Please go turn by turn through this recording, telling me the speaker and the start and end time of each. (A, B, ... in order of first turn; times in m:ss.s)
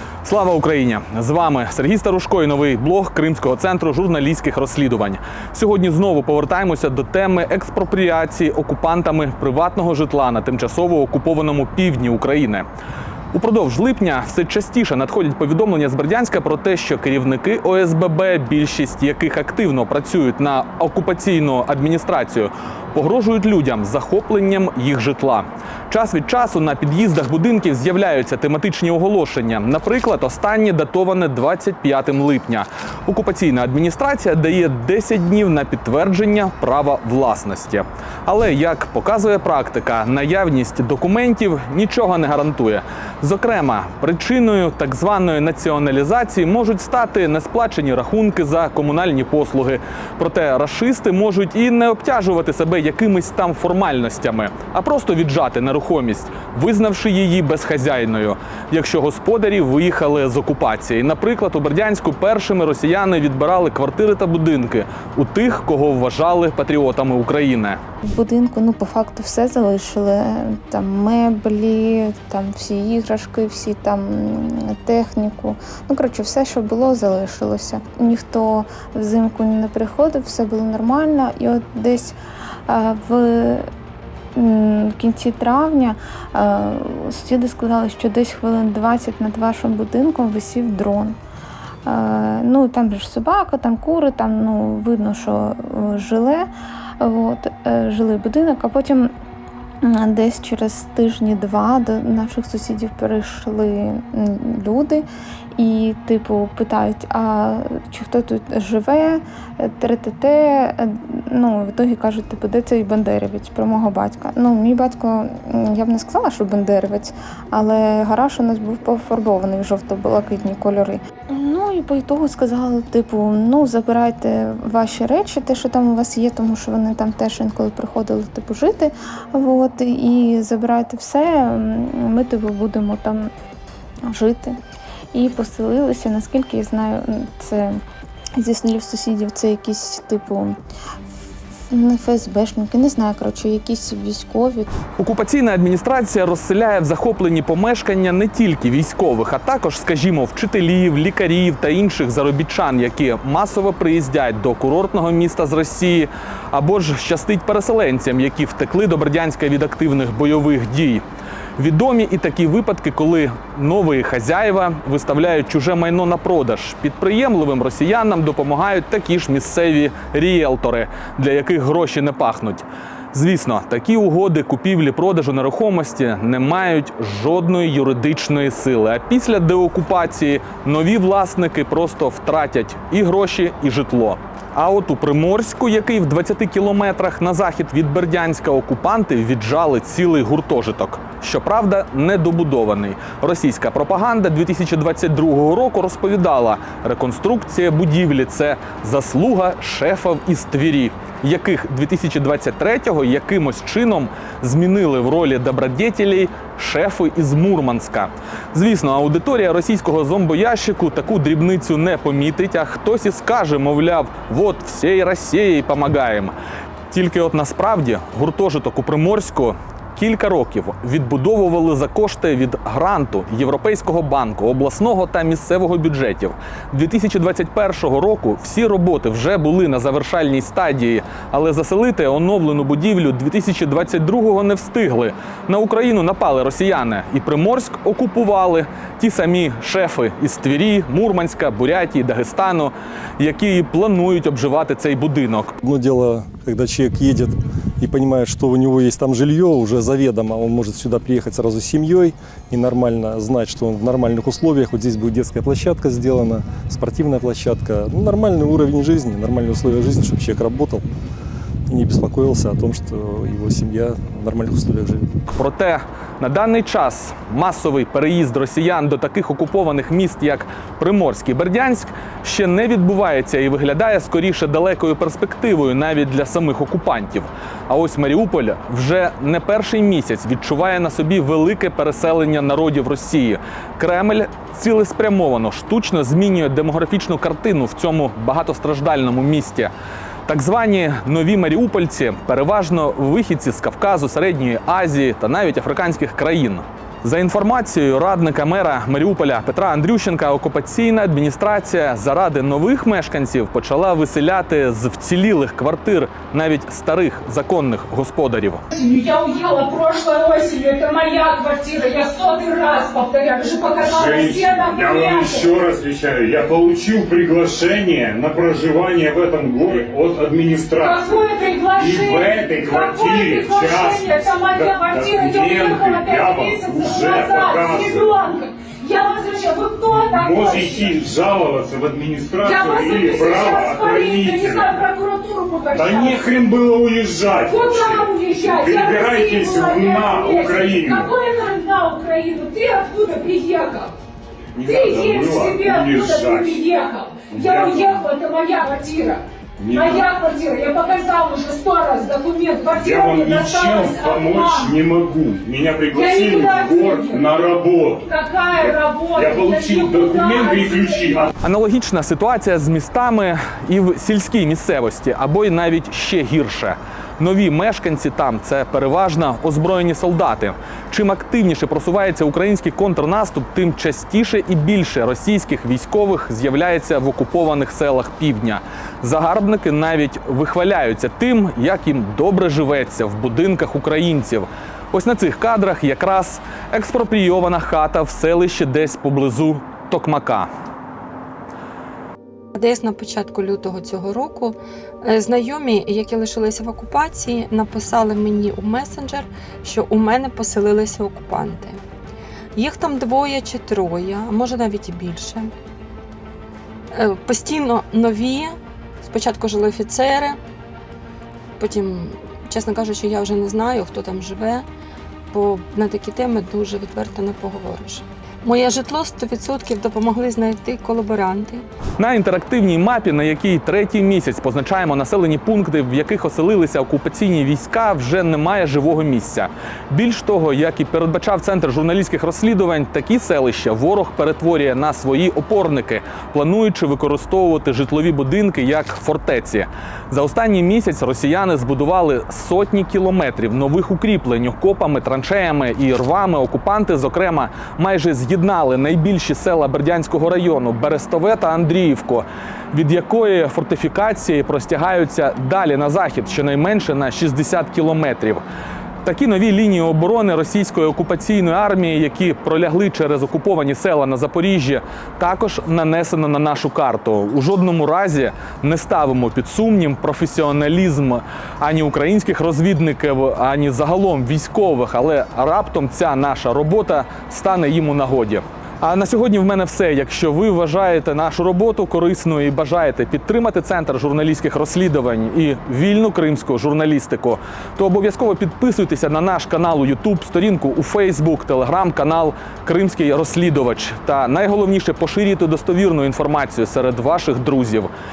0:00.2-0:12.7 A
0:13.3-1:07.8 A
1:08.1-1:22.2 B
1:22.7-1:23.7 B
1:24.4-1:31.2 B
1:31.8-1:36.5 B
1:37.0-1:39.1 B
1:39.8-1:45.0 B
1:45.6-2:13.3 B
2:14.1-2:14.6 B
2:15.1-2:17.8 B
2:18.4-2:20.6 B
2:21.7-2:24.7 B
2:25.0-2:41.0 A
2:41.6-3:36.3 A
3:36.9-4:05.5 A
4:05.6-4:20.9 C
4:21.7-4:25.1 C
4:25.3-4:49.7 A
4:50.3-5:08.6 A
5:08.7-5:15.5 D
5:13.8-5:21.1 E
5:20.8-5:30.9 D
5:21.7-5:28.2 E
5:29.9-5:34.8 E
5:32.4-5:36.2 D
5:35.7-5:41.1 E
5:37.5-5:43.9 D
5:44.6-5:46.7 E
5:44.6-5:54.7 D
5:47.3-5:48.1 E
5:49.6-5:50.1 E
5:52.7-6:01.3 E
5:55.9-5:57.5 D
5:58.0-6:01.3 D
6:01.4-6:30.5 A
6:32.6-6:41.8 F
6:42.6-6:45.5 F
6:46.9-6:50.4 F
6:51.6-6:54.6 F
6:55.3-7:01.6 F
7:02.0-7:38.4 A
7:39.0-8:17.9 A